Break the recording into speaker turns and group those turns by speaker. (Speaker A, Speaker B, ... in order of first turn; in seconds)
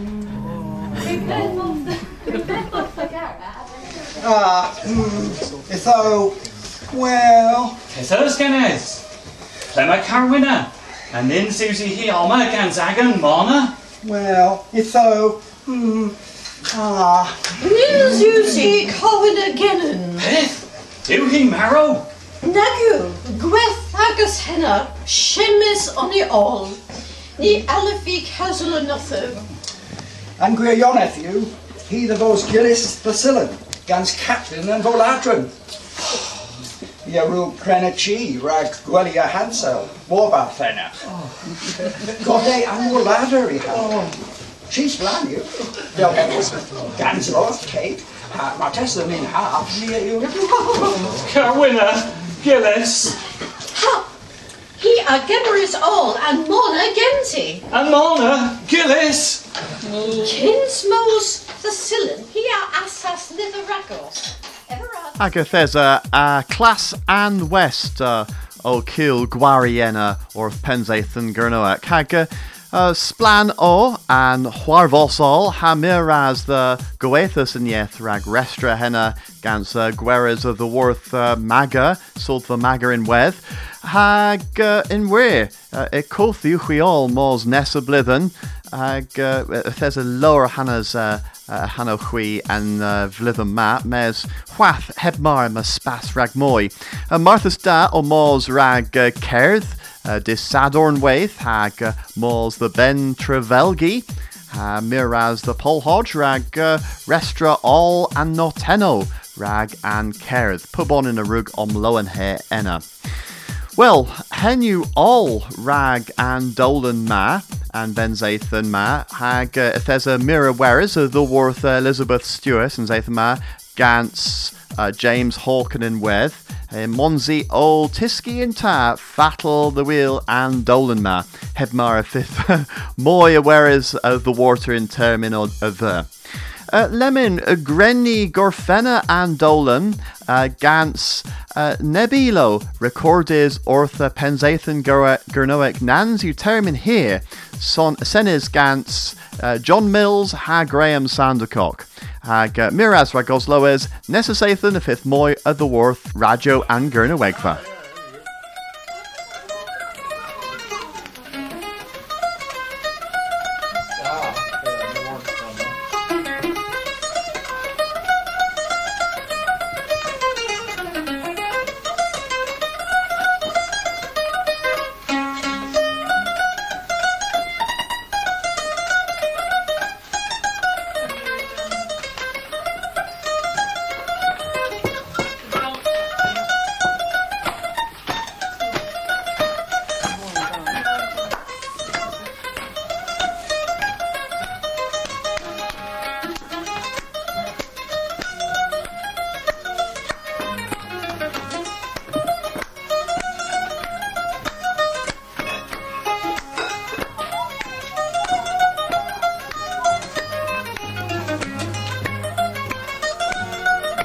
Speaker A: 1.0-4.2, 64.7-65.0
Speaker B: 4.2-7.8, 14.0-17.5, 30.4-35.5, 37.0-41.0, 41.8-44.1, 44.7-51.1
Speaker C: 7.9-9.0, 9.7-13.7, 20.2-22.1, 51.1-53.2, 57.7-59.5
Speaker D: 17.6-20.1, 22.4-26.8, 27.4-29.4, 53.7-54.1, 54.8-57.6, 59.9-64.3
Speaker E: 65.2-112.9, 113.8-136.1, 136.7-157.6